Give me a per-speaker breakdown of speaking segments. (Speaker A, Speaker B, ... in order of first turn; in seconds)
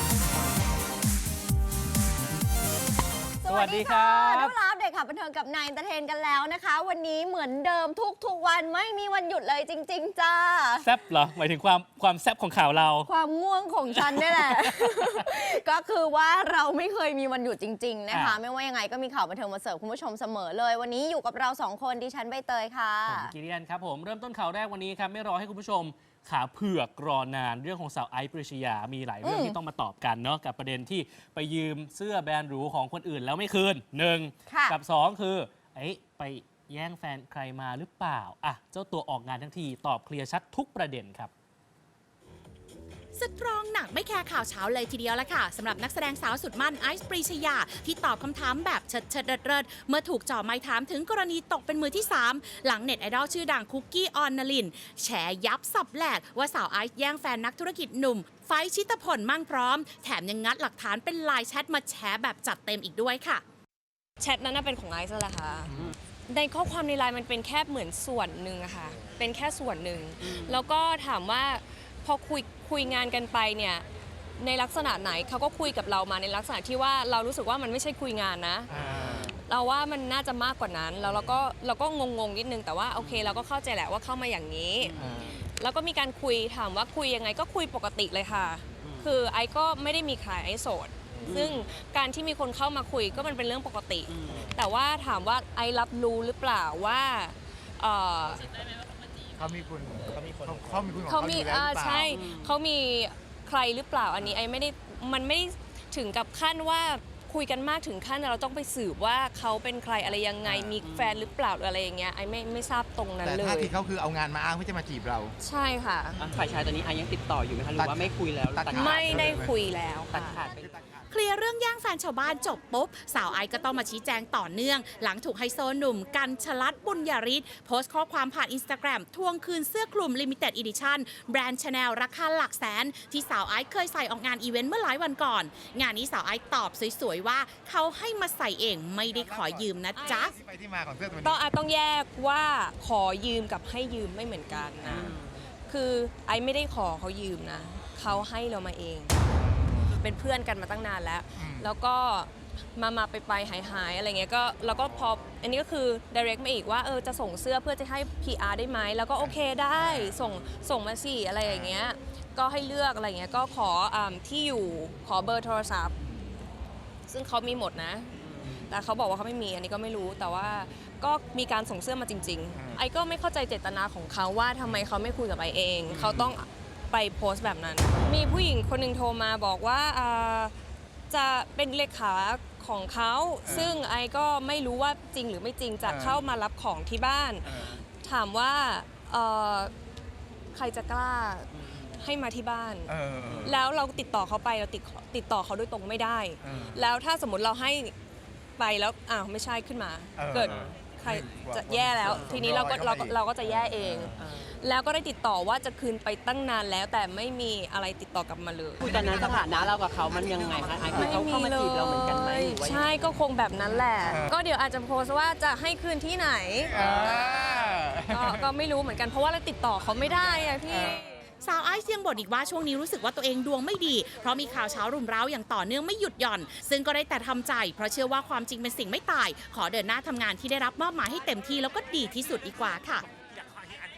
Speaker A: 3.4-10.9, 13.1-23.3, 29.2-29.6, 34.5-34.7
Speaker B: 3.5-4.5, 10.8-13.1, 14.0-15.1, 18.1-18.4, 23.1-41.3
Speaker C: 43.1-63.4, 121.1-140.3, 221.4-233.0
Speaker D: 64.2-65.7, 66.3-73.8, 74.4-78.7, 79.4-85.0, 85.6-98.4, 101.0-113.7, 115.4-116.2, 118.7-120.4, 139.9-140.3, 141.2-145.2, 145.7-149.2, 149.9-165.9, 167.1-180.5, 181.1-187.5, 188.0-189.7, 190.5-197.9, 198.6-209.6, 210.8-217.5, 218.1-221.2
Speaker E: 78.7-79.4, 84.9-85.3, 99.3-102.3, 110.4-111.0, 113.2-115.3, 116.2-116.7, 117.7-119.5, 120.4-121.0, 139.1-141.4, 144.8-145.2, 149.4-149.9, 151.4-151.7, 159.2-160.2, 161.4-161.8, 172.5-172.8, 175.9-176.3, 178.0-178.4, 183.4-183.8, 185.8-186.2, 187.5-187.8, 192.9-193.6, 196.4-196.8, 200.2-204.2, 208.9-211.4, 214.1-214.3, 216.7-218.4, 220.7-221.0
Speaker F: 116.2-119.3, 120.3-120.6, 208.8-212.6